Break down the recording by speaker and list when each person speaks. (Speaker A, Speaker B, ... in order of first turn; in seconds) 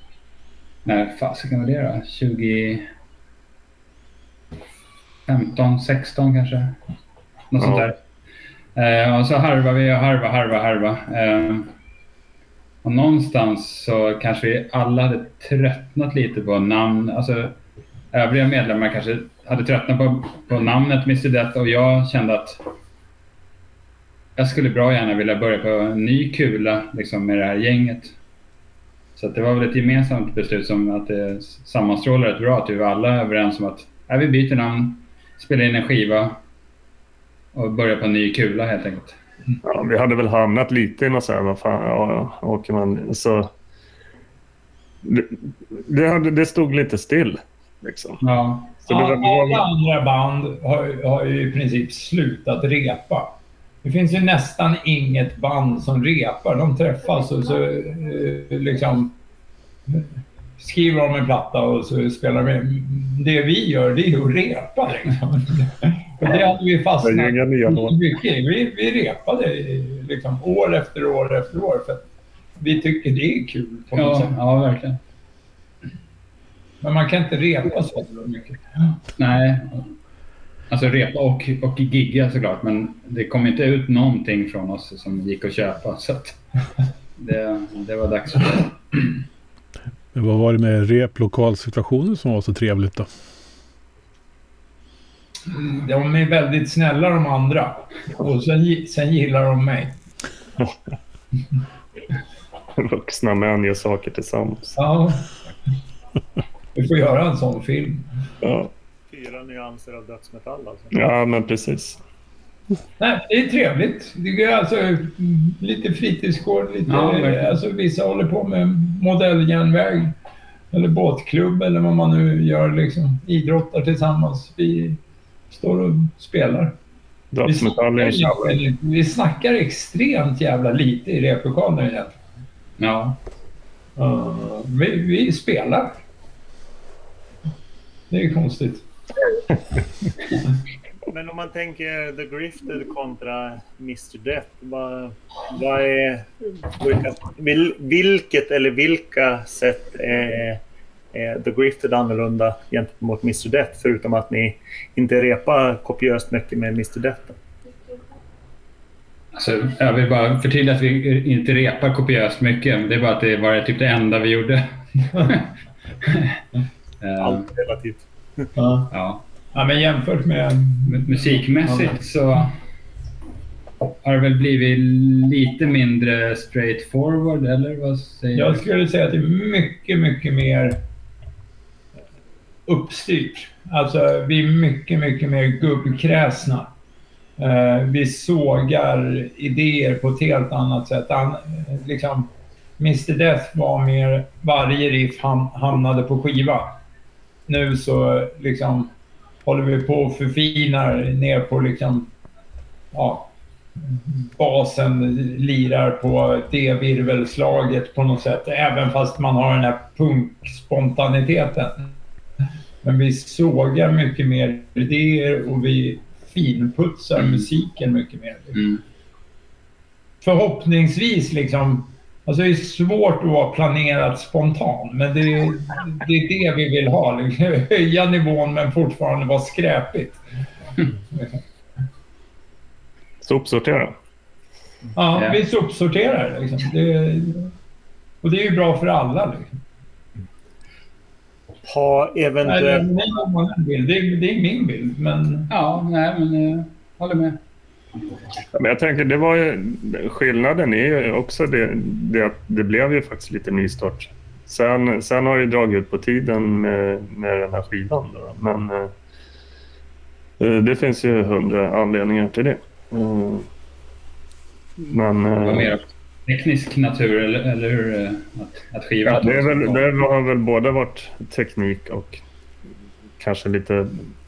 Speaker A: 0.8-2.9, 5.3-6.8, 7.5-8.0, 8.8-11.7, 12.8-17.6, 18.1-22.6, 24.4-28.1, 29.2-36.4, 37.5-39.2, 48.2-48.7, 74.0-75.0, 79.2-79.9, 80.7-86.4, 87.2-89.1, 116.9-117.6, 132.8-133.2, 159.3-164.7, 165.2-165.5, 166.0-166.4, 167.0-167.5, 168.9-169.2, 170.9-172.5, 174.0-178.6, 217.2-217.5, 218.6-218.8, 245.5-247.4, 265.4-269.9
Speaker B: 7.6-7.9, 39.6-43.5, 45.0-48.2, 48.9-49.6, 67.0-68.0, 102.8-104.8, 108.4-108.7, 110.9-112.0, 127.3-128.6, 233.2-234.0, 248.5-258.9, 260.4-263.5, 264.8-265.8, 269.1-272.2, 273.2-274.1
Speaker C: 48.9-59.2, 60.6-72.1, 72.6-74.3, 76.8-79.0, 95.5-100.0, 104.8-105.3, 106.8-108.1, 113.0-120.1, 120.7-125.0, 125.5-126.8, 127.5-132.2, 134.0-136.0, 138.1-138.8, 168.6-168.9, 169.5-172.0, 178.3-180.8, 182.7-186.7, 187.4-196.8, 197.5-198.9, 199.4-202.1, 202.9-203.3, 203.9-212.0, 212.8-218.6, 220.2-230.2, 231.1-231.4, 234.9-237.5, 238.2-239.6, 242.4-245.5
Speaker D: 90.1-93.1
Speaker E: 109.1-111.0, 141.1-150.6, 151.1-157.4, 167.2-168.5, 241.7-242.8